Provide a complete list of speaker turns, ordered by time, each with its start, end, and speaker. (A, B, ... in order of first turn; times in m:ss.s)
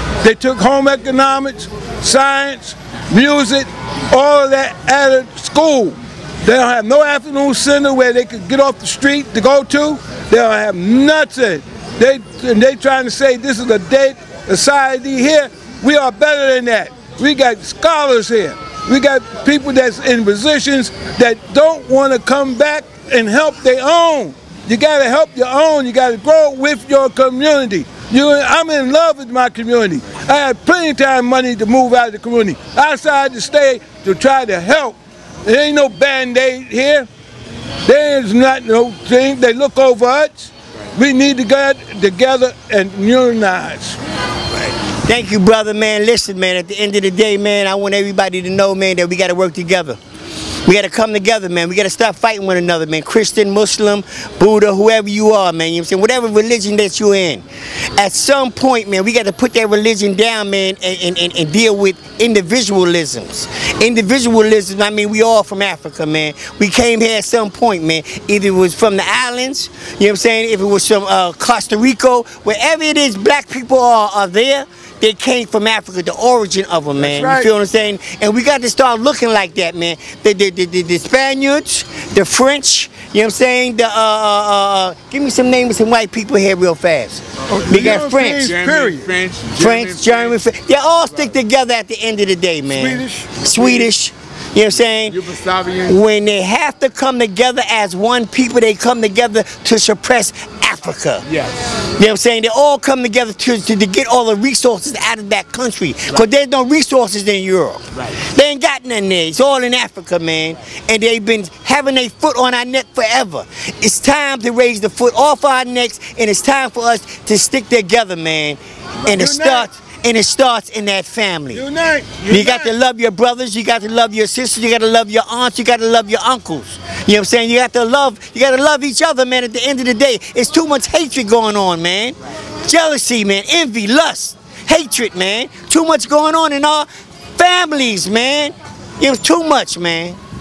0:00.2-0:37.1 A
0:37.8-0:44.0 A
0:45.1-0:50.0 B
0:50.6-0:57.4 B
0:58.0-1:28.6 B
1:17.0-1:17.5 A
1:27.5-1:30.4 C
1:27.5-1:29.1 A
1:29.6-1:35.2 B
1:32.7-1:33.9 A
1:35.1-1:36.0 C
1:35.9-1:41.2 B
1:41.2-1:41.6 C
1:42.0-2:01.7 B
1:48.0-1:48.2 C
1:59.0-1:59.7 A
2:01.5-2:02.7 A
2:02.3-2:16.9 B
2:17.4-2:20.2 B